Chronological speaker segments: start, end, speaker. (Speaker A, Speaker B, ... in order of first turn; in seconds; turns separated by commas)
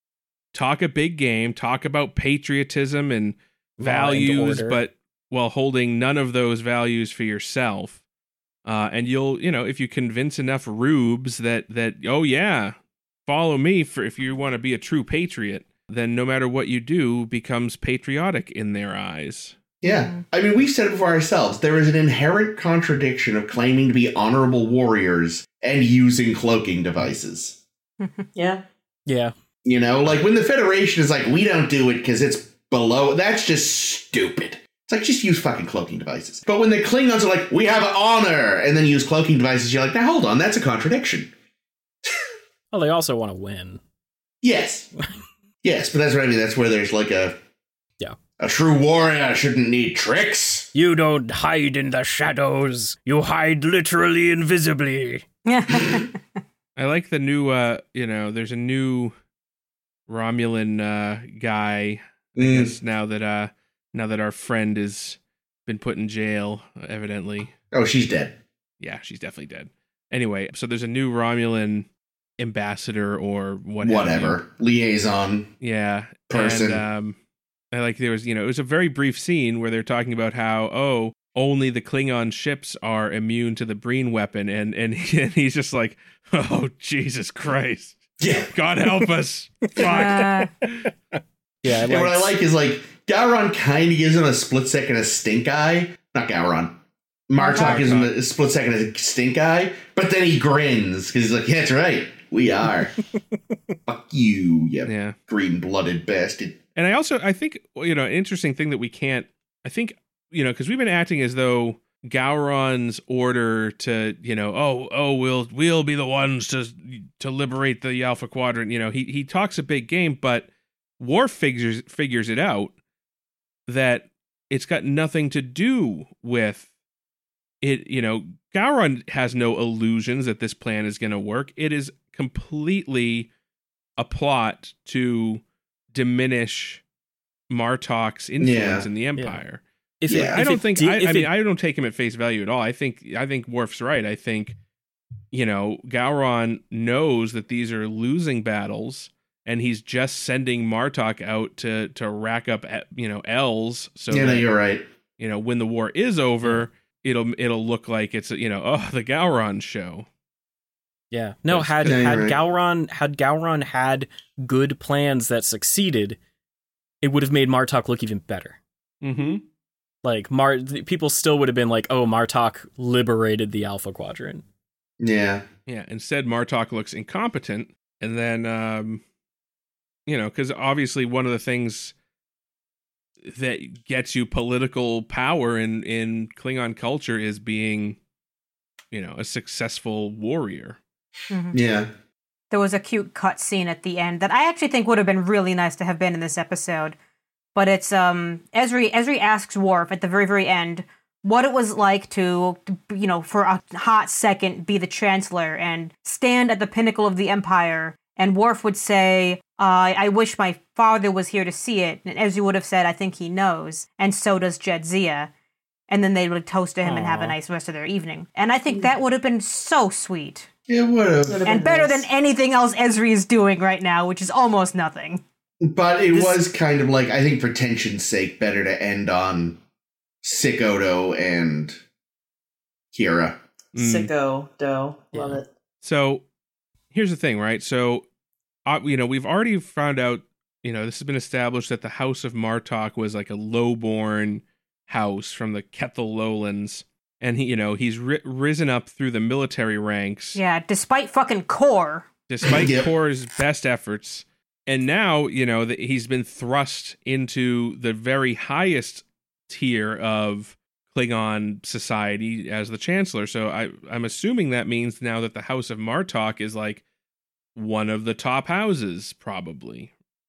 Speaker A: 0.5-8.0, Speaker B: 3.8-4.8, Speaker A: 8.6-19.6, Speaker C: 19.8-27.6, Speaker D: 19.8-20.2, Speaker E: 28.3-28.6, Speaker B: 29.1-29.3, Speaker C: 29.6-41.3, Speaker B: 42.7-43.8, Speaker C: 44.4-44.9, Speaker C: 45.6-47.4, Speaker C: 48.4-50.7, Speaker B: 50.7-55.2, Speaker D: 55.5-56.2, Speaker A: 56.8-59.1, Speaker A: 60.1-67.5, Speaker C: 62.4-62.7, Speaker C: 67.7-68.4, Speaker A: 68.8-71.9, Speaker A: 72.4-74.4, Speaker C: 73.8-75.5, Speaker A: 75.6-77.2, Speaker C: 76.3-76.8, Speaker A: 77.7-90.9, Speaker C: 88.2-88.5, Speaker D: 89.8-90.5, Speaker B: 91.6-92.3, Speaker C: 91.7-103.0, Speaker D: 97.4-97.8, Speaker A: 97.5-98.1, Speaker C: 103.9-106.6, Speaker A: 104.8-105.2, Speaker A: 106.7-122.7, Speaker A: 123.7-126.7, Speaker A: 127.6-133.3, Speaker A: 134.0-136.8, Speaker A: 137.5-144.6, Speaker C: 138.4-138.9, Speaker B: 140.0-141.3, Speaker C: 140.1-140.4, Speaker A: 145.3-154.5, Speaker C: 154.1-154.8, Speaker A: 155.2-160.1, Speaker B: 161.1-166.2, Speaker A: 161.5-162.0, Speaker C: 161.8-162.4, Speaker B: 167.0-168.6, Speaker A: 169.0-169.4, Speaker B: 170.0-174.4, Speaker C: 175.0-175.4, Speaker A: 175.7-179.0, Speaker A: 180.1-181.9, Speaker A: 183.2-188.0, Speaker A: 188.9-190.8, Speaker D: 191.3-191.6, Speaker C: 191.5-191.9, Speaker D: 192.5-196.9, Speaker D: 197.5-215.3, Speaker D: 215.9-220.5, Speaker B: 216.8-217.3, Speaker C: 220.7-221.5, Speaker E: 221.2-222.0, Speaker D: 221.4-225.2, Speaker C: 225.6-229.6, Speaker C: 230.2-231.8, Speaker C: 232.9-233.4, Speaker A: 233.7-234.1, Speaker E: 233.7-235.5, Speaker B: 235.1-235.4, Speaker A: 235.8-236.2, Speaker A: 236.9-238.1, Speaker A: 238.7-250.4, Speaker D: 250.3-252.1, Speaker A: 252.3-266.8, Speaker C: 252.4-252.9, Speaker A: 267.6-269.9